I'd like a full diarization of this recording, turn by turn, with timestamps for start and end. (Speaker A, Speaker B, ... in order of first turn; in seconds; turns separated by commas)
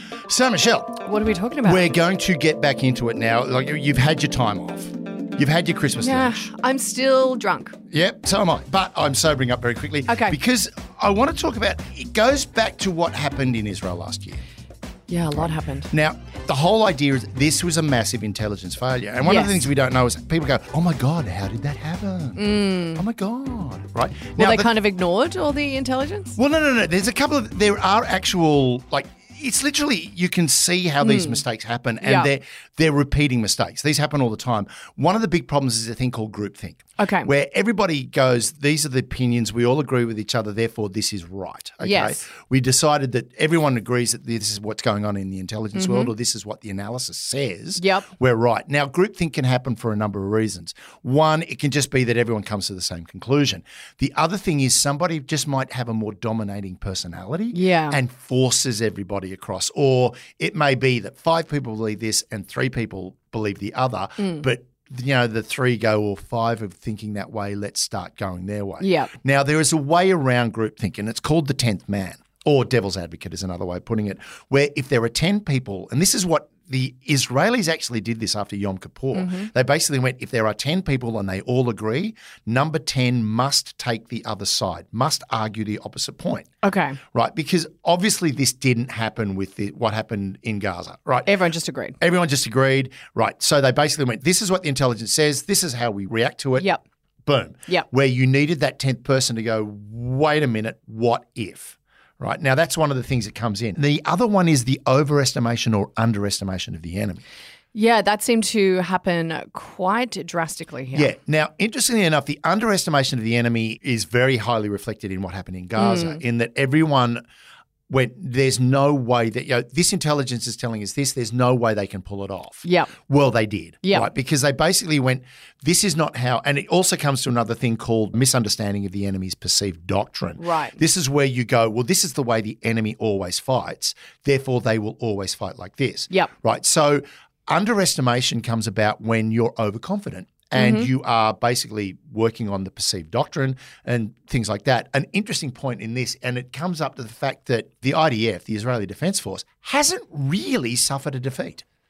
Speaker A: 0.3-1.0, Speaker B: 1.0-1.9, Speaker A: 1.6-6.5, Speaker B: 6.0-7.8, Speaker A: 7.9-14.4, Speaker B: 10.1-10.4, Speaker B: 15.1-15.9, Speaker A: 15.3-24.7, Speaker B: 19.2-19.6, Speaker B: 22.4-23.0, Speaker B: 24.4-26.4, Speaker A: 26.4-86.5, Speaker B: 31.0-31.4, Speaker B: 32.0-32.3, Speaker B: 37.0-37.3, Speaker B: 41.8-42.2, Speaker B: 45.7-46.1, Speaker B: 47.8-48.1, Speaker B: 57.5-58.0, Speaker B: 68.8-69.1, Speaker B: 79.1-79.5, Speaker B: 86.6-87.0, Speaker A: 87.1-91.3, Speaker B: 91.2-92.0, Speaker A: 92.0-96.7, Speaker A: 97.2-107.2, Speaker B: 107.7-111.1, Speaker A: 110.9-117.2, Speaker B: 115.8-116.2, Speaker A: 117.9-151.6, Speaker B: 122.6-122.9, Speaker B: 130.4-130.8, Speaker B: 140.5-140.9